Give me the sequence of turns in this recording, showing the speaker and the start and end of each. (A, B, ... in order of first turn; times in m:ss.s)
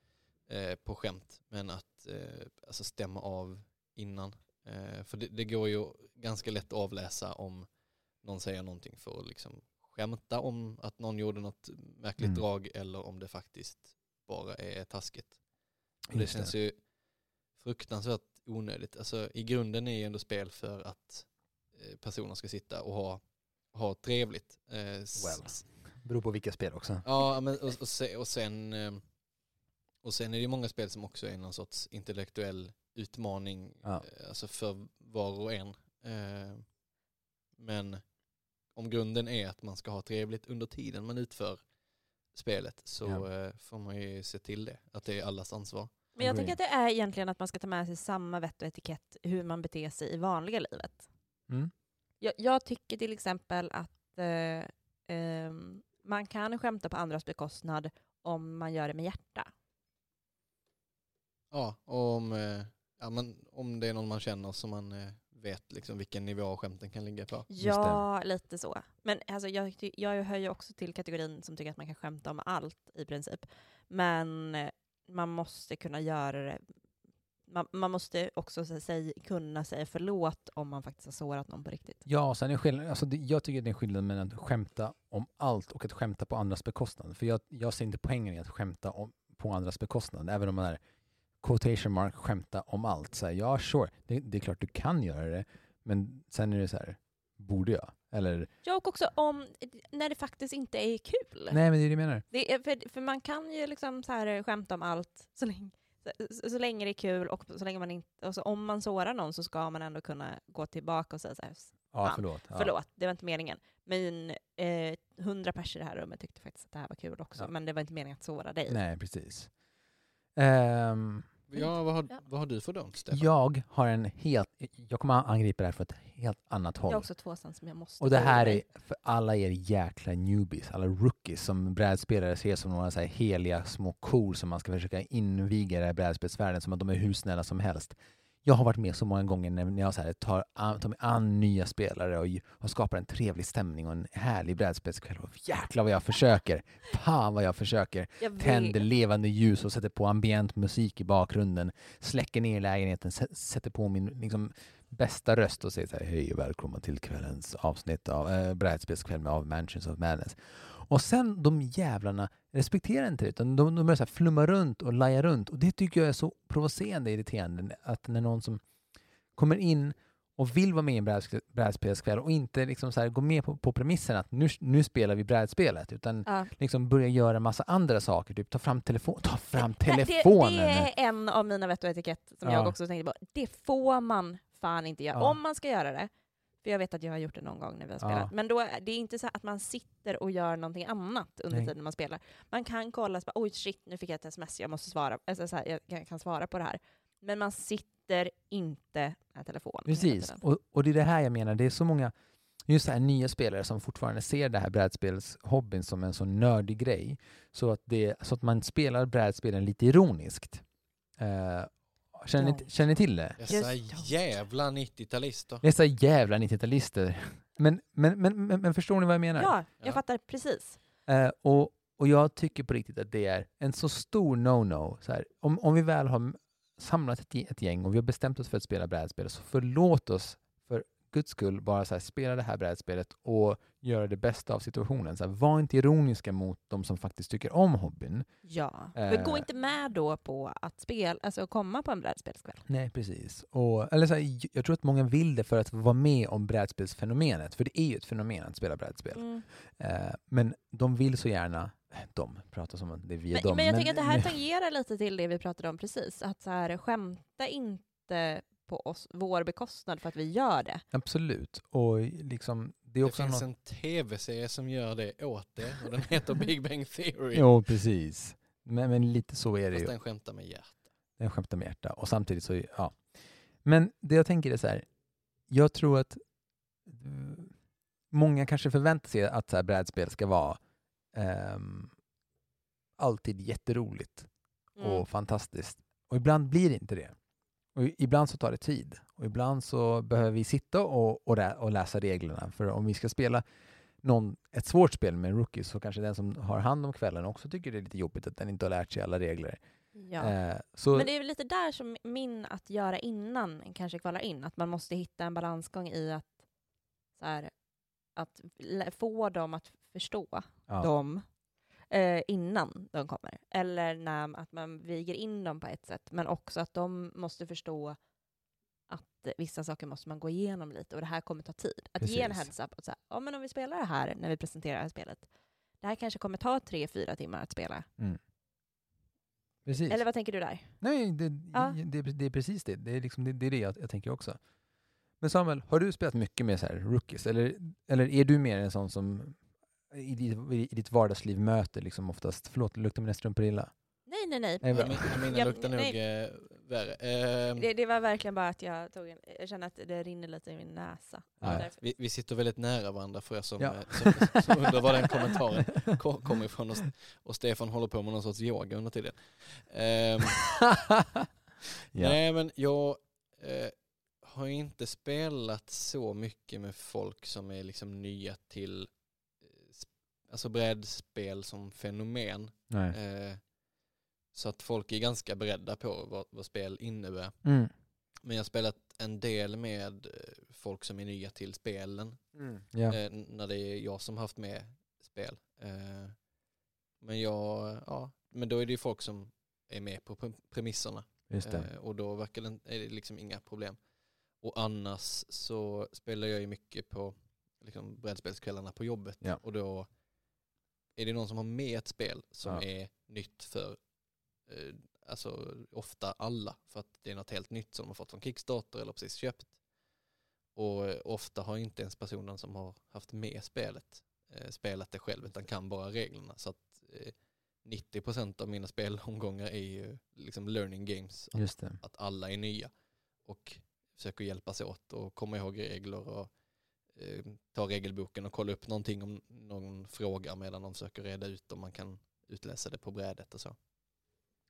0:00.4-0:15.4 A
0:16.1-0:17.0 A
0:16.1-0:16.5 B
0:17.5-0:25.7 A
0:25.2-0:27.1 B
0:27.0-0:29.1 A
0:30.0-0:36.8 A
0:37.6-0:41.7 A
0:42.3-0:46.1 A
0:46.2-0:51.1 C
0:46.2-0:46.6 B
0:52.2-0:59.5 C
1:01.5-1:07.5 A
1:07.5-1:16.6 C
1:07.6-1:08.0 B
1:17.5-1:22.0 C
1:22.1-1:30.8 B
1:31.4-1:38.5 B
1:38.6-1:41.6 C
1:41.5-1:42.2 B
1:42.3-1:58.8 C
1:51.9-1:52.7 B
1:58.7-1:59.5 B
2:00.4-2:01.4 B
2:01.5-2:03.3 A
2:03.1-2:07.1 B
2:06.9-2:08.6 C
2:08.0-2:48.6 B
2:28.2-2:28.8 C
2:49.4-3:00.9 B
2:56.3-2:56.5 C
2:59.6-3:06.1 C
3:02.4-3:02.8 B
3:06.6-3:20.4 C
3:08.0-3:08.3 B
3:19.9-3:22.1 B
3:22.7-3:30.6 B
3:31.2-3:33.4 B
3:32.4-3:32.7 C
3:33.4-3:35.6 A
3:33.4-3:34.1 C
3:35.6-3:39.6 B
3:39.4-3:40.8 C
3:41.1-3:58.3 B
3:58.5-4:02.6 C
3:58.9-3:59.5 B
4:02.7-4:14.4 B
4:09.1-4:09.5 C
4:13.3-4:20.8 C
4:20.9-4:23.4 B
4:23.0-4:27.5 A
4:27.3-4:29.9 B
4:29.7-4:30.8 A
4:31.2-4:34.9 B
4:35.5-4:36.2 B
4:36.8-4:37.6 B
4:38.1-4:40.6 B
4:41.1-4:41.9 B
4:43.0-4:47.2 B
4:44.8-4:45.1 C
4:47.8-4:53.4 B
4:54.0-4:59.6 B
5:00.0-5:00.4 C
5:00.2-5:01.1 B
5:00.9-5:06.4 C
5:07.2-5:07.5 C
5:08.2-5:11.3 C
5:11.9-5:18.0 C
5:18.9-5:25.3 C
5:22.0-5:22.5 B
5:25.8-5:27.9 C
5:29.6-5:30.0 B
5:29.9-5:30.8 C
5:30.8-5:34.4 B
5:31.5-5:31.8 C
5:35.2-5:39.4 B
5:39.9-5:43.8 B
5:44.1-5:46.0 C
5:44.6-5:45.1 B
5:44.7-5:47.7 A
5:47.6-5:51.8 C
5:51.4-6:00.6 A
5:53.6-5:54.8 B
6:01.9-6:02.2 B
6:01.9-6:13.5 A
6:12.7-6:13.0 B
6:14.3-6:17.4 A
6:17.4-6:17.7 B
6:18.2-6:26.2 A
6:22.4-6:23.0 B
6:27.0-6:39.9 A
6:31.3-6:31.7 B
6:41.0-6:49.6 A
6:50.6-7:06.3 A
7:01.3-7:01.8 B
7:06.9-7:13.6 A